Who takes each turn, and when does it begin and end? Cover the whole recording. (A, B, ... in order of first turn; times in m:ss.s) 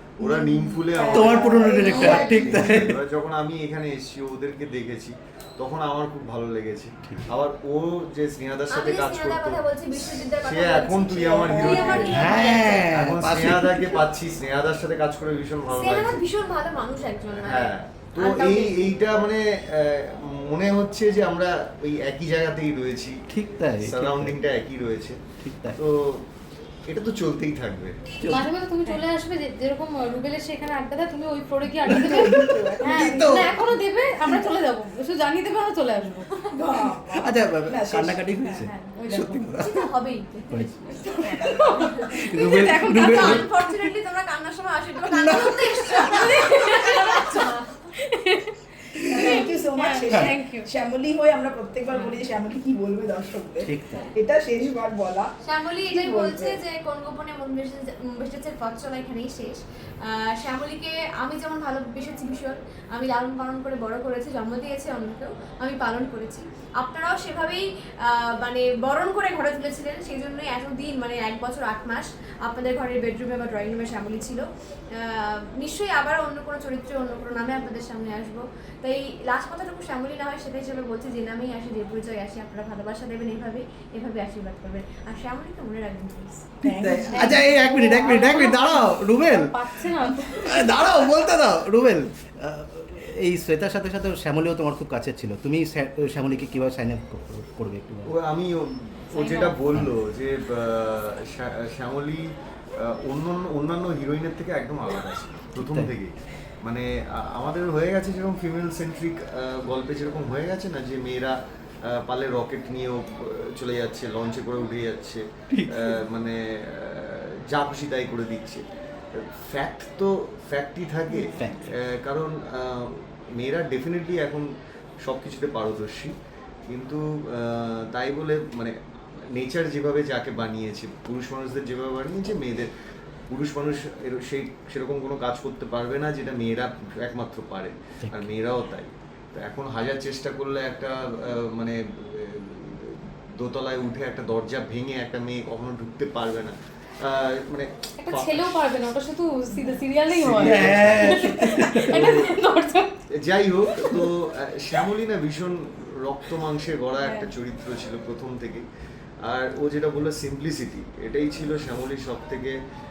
0:00.2-0:09.6 A
0:00.2-0:02.4 B
0:00.9-0:02.5 C
0:01.1-0:03.0 D
0:08.7-0:12.9 C
0:10.2-0:16.2 A
0:11.3-0:12.3 B
0:12.1-0:14.0 D
0:15.7-0:18.8 C
0:17.3-0:23.2 A
0:23.3-0:24.4 D
0:23.8-0:25.2 A
0:25.4-0:25.8 D
0:25.8-0:26.2 A
0:26.9-0:28.0 A
0:28.2-0:28.5 D
0:28.3-0:36.3 E
0:31.8-0:33.5 B
0:32.8-0:33.5 D
0:36.5-0:38.7 B
0:37.2-0:39.9 D
0:38.8-0:39.5 E
0:39.6-0:47.9 C
0:40.5-0:41.0 D
0:41.0-0:41.6 B
0:41.4-0:43.6 E
0:42.1-0:43.5 D
0:45.1-0:46.0 D
0:45.9-0:47.5 E
0:48.0-0:50.7 E
0:49.1-0:55.3 B
0:49.1-0:49.4 D
0:53.6-0:54.1 D
0:55.4-1:26.5 C
0:55.8-0:56.6 B
1:26.6-1:27.4 B
1:26.6-1:38.1 D
1:27.1-1:30.6 E
1:38.1-1:42.3 A
1:39.2-1:39.5 E
1:42.8-1:51.4 A
1:45.6-1:45.9 D
1:51.9-1:55.2 A
1:55.5-1:56.0 D
1:55.8-1:58.6 A
1:59.1-2:04.5 A
2:01.1-2:01.5 B
2:01.4-2:01.7 D
2:05.0-2:06.1 A
2:06.7-2:08.7 A
2:09.4-2:12.7 A
2:13.3-2:28.8 A
2:18.0-2:18.3 D
2:28.0-2:33.0 E
2:30.1-2:32.3 A
2:30.3-2:32.0 D
2:33.2-2:38.7 A
2:39.2-2:42.6 A